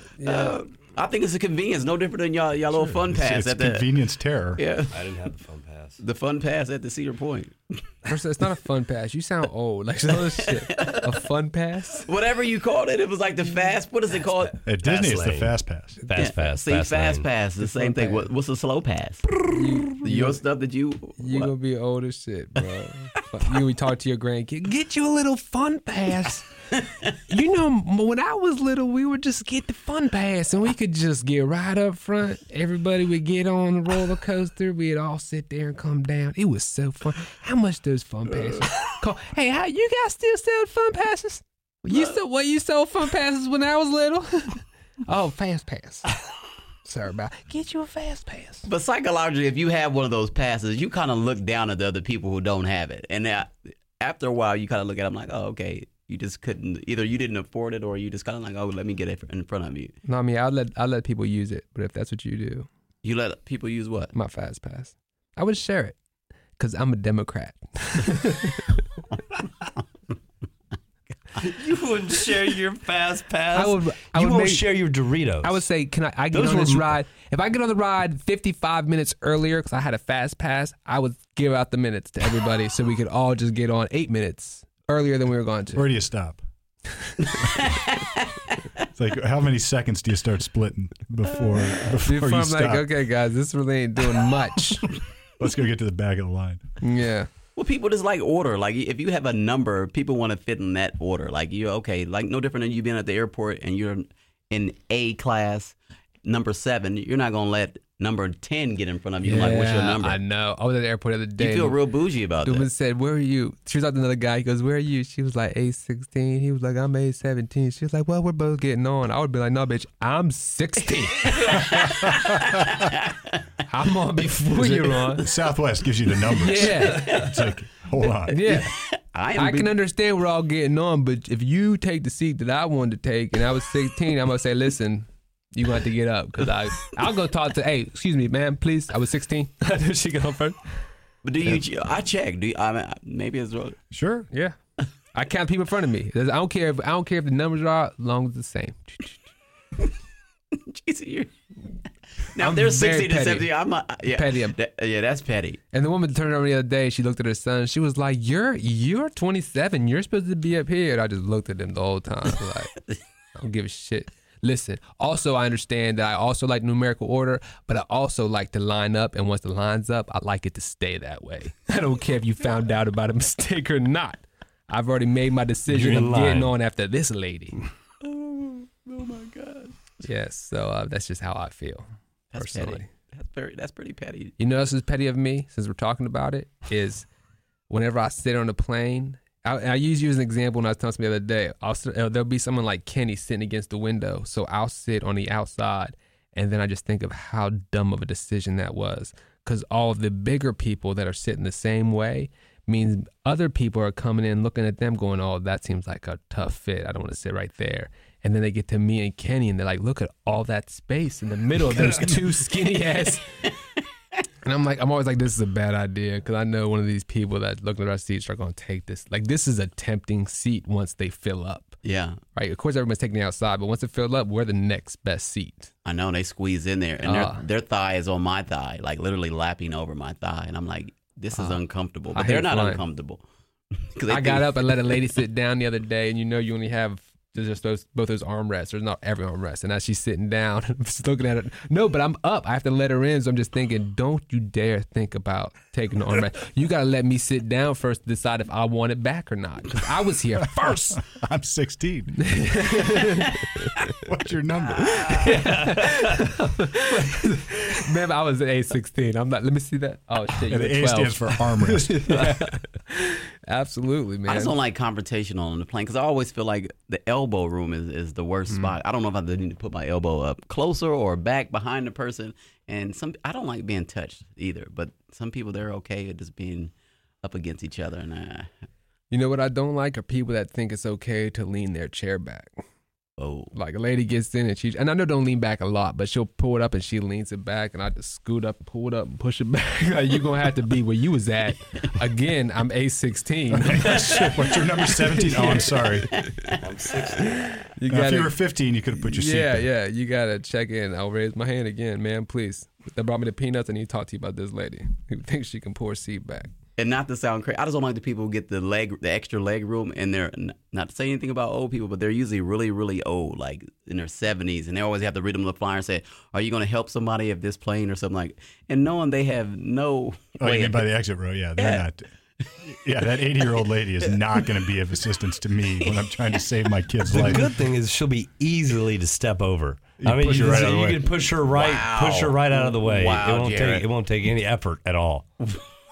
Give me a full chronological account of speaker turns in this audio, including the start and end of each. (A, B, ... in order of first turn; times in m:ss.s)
0:00.2-0:00.6 A
0:00.2-0:03.9 B
0:02.7-0:04.6 C
0:04.6-0:05.0 B
0:04.9-0:06.0 D
0:06.0-0:08.0 B
0:08.1-0:12.1 A
0:10.4-0:11.1 B
0:12.0-0:14.6 B
0:14.6-0:16.0 C
0:14.8-0:17.3 D
0:16.1-0:21.5 B
0:17.7-0:18.3 A
0:19.5-0:20.4 A
0:21.2-0:26.5 A
0:27.3-0:46.1 A
0:41.9-0:42.2 B
0:46.8-0:48.7 A
0:48.6-0:59.9 B
1:00.1-1:02.7 A
1:03.0-1:04.1 B
1:04.1-1:06.0 A
1:06.6-1:08.8 A
1:11.4-1:15.6 D
1:13.5-1:14.8 A
1:15.4-1:25.9 A
1:16.3-1:16.9 D
1:25.7-1:26.4 C
1:27.4-1:28.2 B
1:29.0-1:32.9 C
1:32.0-1:34.9 A
1:35.4-1:36.6 C
1:36.8-1:37.3 A
1:37.6-1:50.2 B
1:49.2-1:51.8 A
1:51.4-1:52.7 B
1:52.4-2:02.2 A
2:01.2-2:03.3 B
2:02.0-2:02.6 C
2:03.7-2:05.3 A
2:04.6-2:08.4 C
2:06.3-2:07.2 A
2:06.8-2:07.4 D
2:06.8-2:07.4 B
2:08.0-2:09.7 B
2:08.3-2:08.8 A
2:09.3-2:20.7 A
2:21.2-2:23.8 B
2:23.9-2:24.3 C
2:25.1-2:29.3 A
2:30.5-2:31.3 B
2:32.3-2:35.6 B
2:32.4-2:33.5 A
2:34.1-2:34.6 A
2:35.7-2:42.8 A
2:43.4-2:57.6 A
2:55.7-2:56.5 D
2:58.0-3:00.0 B
3:00.0-3:01.8 A
3:02.3-3:04.4 B
3:02.4-3:02.9 A
3:04.4-3:07.1 A
3:07.7-3:33.3 A
3:34.4-3:41.8 A
3:41.8-3:42.2 B
3:42.4-3:45.7 A
3:45.8-3:53.2 B
3:47.0-3:47.4 A
3:52.1-3:52.8 A
3:53.9-3:54.9 B
3:54.1-4:11.0 A
4:10.6-4:12.5 C
4:12.2-4:13.8 A
4:14.0-4:15.4 C
4:14.8-4:24.5 A
4:15.0-4:16.3 D
4:20.5-4:22.4 C
4:24.3-4:36.7 B
4:37.2-4:38.5 B
4:39.1-4:42.6 A
4:43.2-4:43.5 B
4:43.5-4:56.6 A
4:53.5-4:56.1 C
4:56.3-4:56.6 B
4:56.5-4:57.5 D
4:57.3-4:58.4 A
4:57.9-4:59.7 C
4:59.0-5:06.5 A
5:06.8-5:20.9 B
5:20.4-5:22.0 C
5:21.6-5:21.8 B
5:22.6-5:27.5 C
5:24.1-5:24.4 B
5:27.0-5:35.4 D
5:30.0-5:31.2 C
5:31.5-5:33.8 B